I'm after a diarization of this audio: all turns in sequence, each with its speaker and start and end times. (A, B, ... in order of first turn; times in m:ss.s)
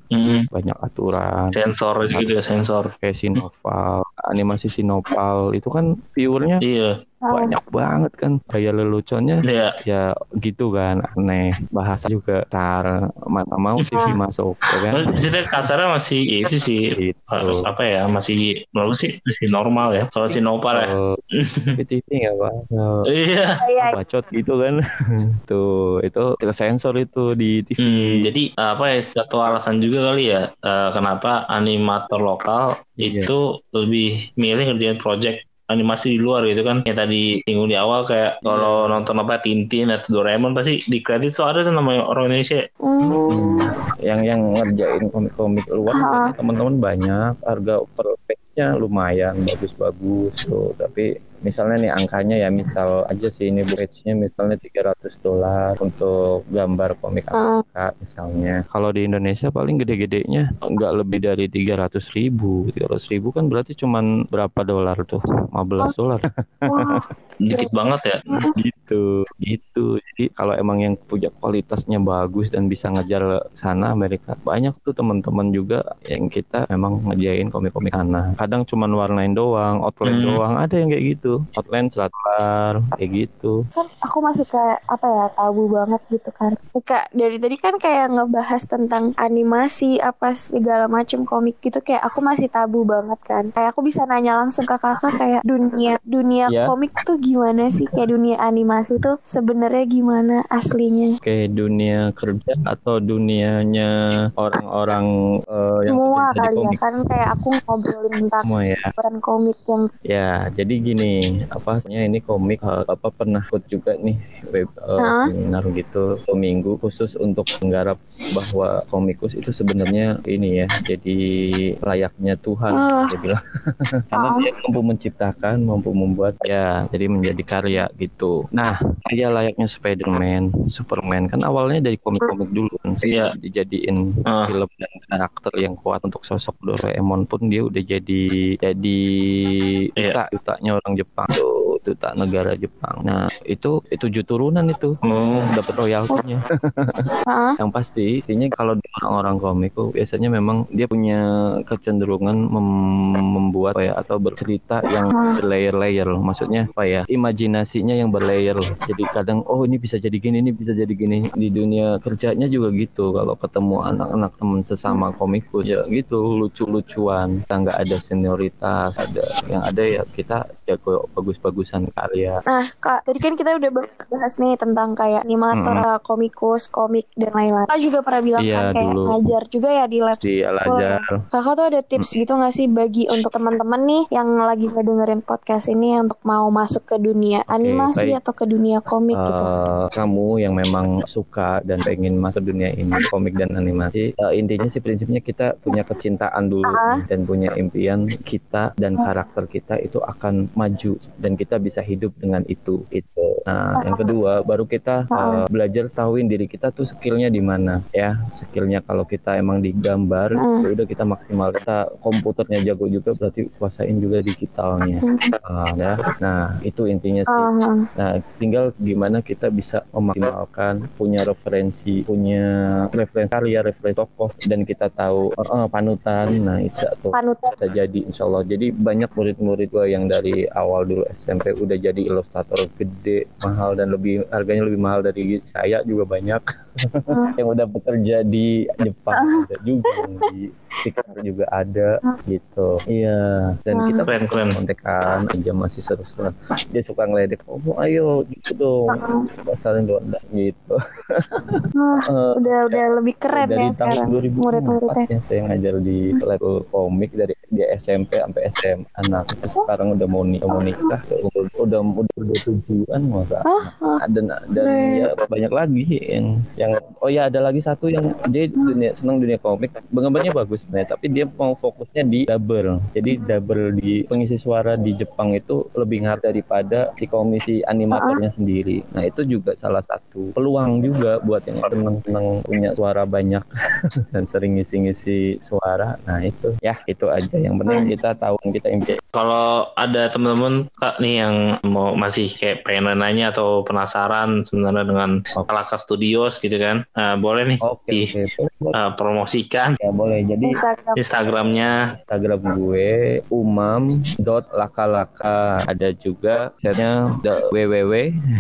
0:00.1-0:00.5 A
0:00.5-0:01.6 B
0:01.6-0:03.4 A
0:03.0-0:06.6 B
0:06.6-0:07.0 A
0:07.2-0:07.6 C
0:07.3-0:15.1 B
0:09.4-0:09.8 A
0:13.8-0:14.1 A
0:14.9-0:21.8 A
0:17.0-0:17.7 B
0:20.7-0:23.1 B
0:23.1-0:23.6 A
0:23.6-0:24.0 C
0:23.8-0:24.8 B
0:25.5-0:28.2 B
0:27.8-0:42.7 A
0:33.0-0:33.3 B
0:38.5-0:39.1 B
0:42.8-0:43.7 C
0:43.3-1:07.0 B
0:45.9-0:46.3 C
0:57.3-0:57.6 C
1:06.7-1:07.7 C
1:07.4-1:08.2 A
1:08.3-1:08.6 C
1:08.5-1:23.6 B
1:20.1-1:20.4 A
1:23.8-1:41.1 C
1:36.5-1:36.7 B
1:41.2-1:46.8 B
1:45.9-1:49.9 C
1:48.4-1:48.9 B
1:50.1-2:01.2 B
1:55.0-1:55.3 C
2:01.9-2:03.4 B
2:02.7-2:03.1 C
2:04.1-2:27.0 B
2:04.2-2:04.5 C
2:13.1-2:13.3 A
2:14.3-2:14.5 A
2:25.0-2:25.5 A
2:27.3-2:27.6 C
2:27.6-2:52.4 B
2:35.1-2:35.4 C
2:52.5-3:09.5 C
2:55.5-2:55.8 B
2:58.4-2:59.2 B
3:00.2-3:01.1 B
3:07.5-3:08.2 B
3:09.1-4:43.5 B
3:16.7-3:17.0 C
3:23.8-3:24.0 C
3:25.1-3:25.4 C
3:30.4-3:30.6 C
3:35.0-3:35.4 C
3:37.3-3:37.8 C
3:47.1-3:47.5 C
3:57.1-3:57.4 C
3:59.1-4:00.3 C
4:03.7-4:04.0 C
4:04.0-4:04.6 A
4:08.9-4:09.2 C
4:11.8-4:15.1 C
4:20.5-4:20.9 C
4:23.5-4:24.0 C
4:24.6-4:25.1 C
4:37.9-4:38.2 C
4:44.1-4:49.0 B
4:49.2-4:58.1 A
4:57.6-4:58.8 B
4:58.7-4:59.8 A
4:59.8-5:00.6 B
5:00.4-5:01.0 C
5:01.0-5:01.8 A
5:01.9-5:08.1 B